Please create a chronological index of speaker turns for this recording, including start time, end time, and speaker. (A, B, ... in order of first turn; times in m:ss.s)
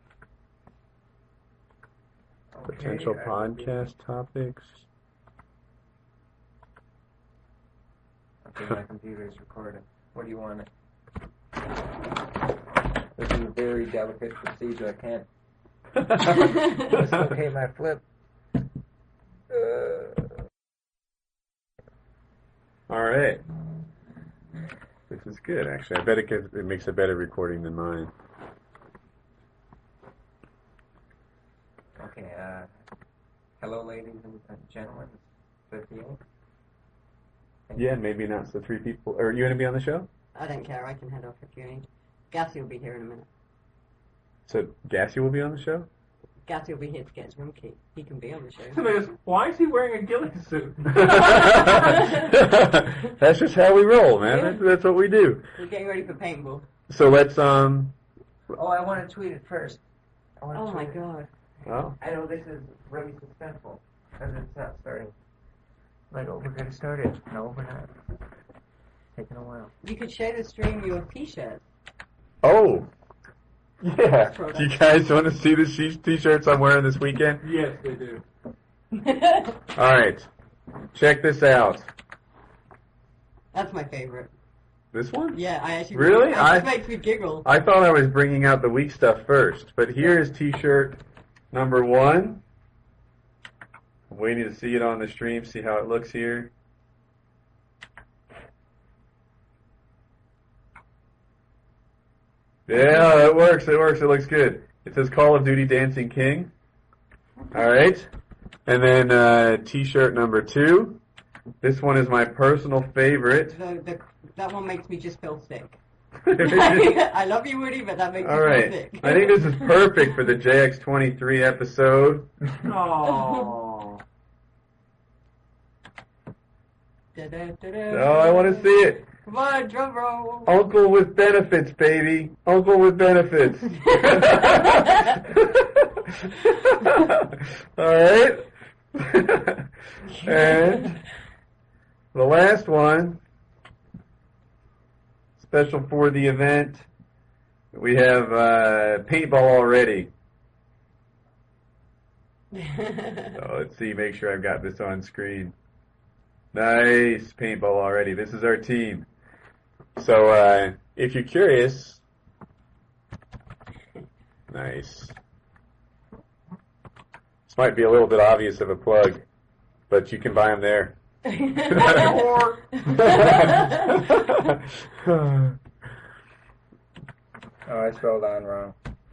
0:02.5-0:03.8 A
0:02.7-0:04.8 B
0:08.4-0:10.7 A
0:13.2-0:15.3 A
0:16.0-0:17.2 B
0:16.5-0:18.0 A
0:19.5-0:20.3 A
0:22.9-0:23.4 B
0:25.1-0:28.1 B
0:32.0-0:32.7 A
0:33.6-0:36.2 A
0:37.8-0:40.1 B
0:40.4-0:43.3 C
0:44.5-0:45.9 B
0:46.5-0:48.8 C
0:48.7-0:52.0 D
0:50.9-0:55.4 B
0:54.3-0:54.6 C
0:55.6-0:56.7 C
0:56.9-0:58.0 B
0:58.5-0:59.8 A
1:00.4-1:01.0 A
1:00.5-1:01.3 C
1:01.7-1:02.0 B
1:02.0-1:05.1 A
1:06.1-1:08.0 A
1:09.2-1:09.7 A
1:09.8-1:11.6 C
1:12.4-1:12.9 B
1:13.8-1:17.4 B
1:14.2-1:14.8 C
1:17.4-1:18.2 D
1:19.0-1:19.6 C
1:19.8-1:20.3 B
1:20.9-1:21.9 B
1:23.5-1:24.3 C
1:24.9-1:25.4 B
1:25.3-1:27.5 C
1:25.9-1:26.7 B
1:27.4-1:31.0 B
1:31.5-1:32.4 B
1:34.1-1:36.5 B
1:42.7-1:46.5 B
1:47.5-1:48.1 B
1:48.7-1:51.0 B
1:51.6-1:53.6 B
1:53.5-1:55.8 C
1:56.2-1:57.0 B
1:56.3-1:59.8 C
1:58.2-2:02.7 B
2:02.6-2:04.0 D
2:03.1-2:03.4 C
2:07.1-2:08.7 C
2:07.9-2:09.0 B
2:09.2-2:10.6 C
2:10.5-2:19.7 B
2:14.0-2:14.4 C
2:20.2-2:21.0 B
2:22.1-2:23.2 B
2:25.4-2:26.9 B
2:27.7-2:30.1 B
2:32.5-2:33.4 C
2:33.4-2:35.5 B
2:36.5-2:39.1 B
2:40.0-2:42.0 B
2:44.5-2:45.2 B
2:47.5-2:49.2 B
2:49.9-2:51.0 B
2:51.3-2:53.9 C
2:51.6-2:55.6 B
2:57.6-2:58.8 A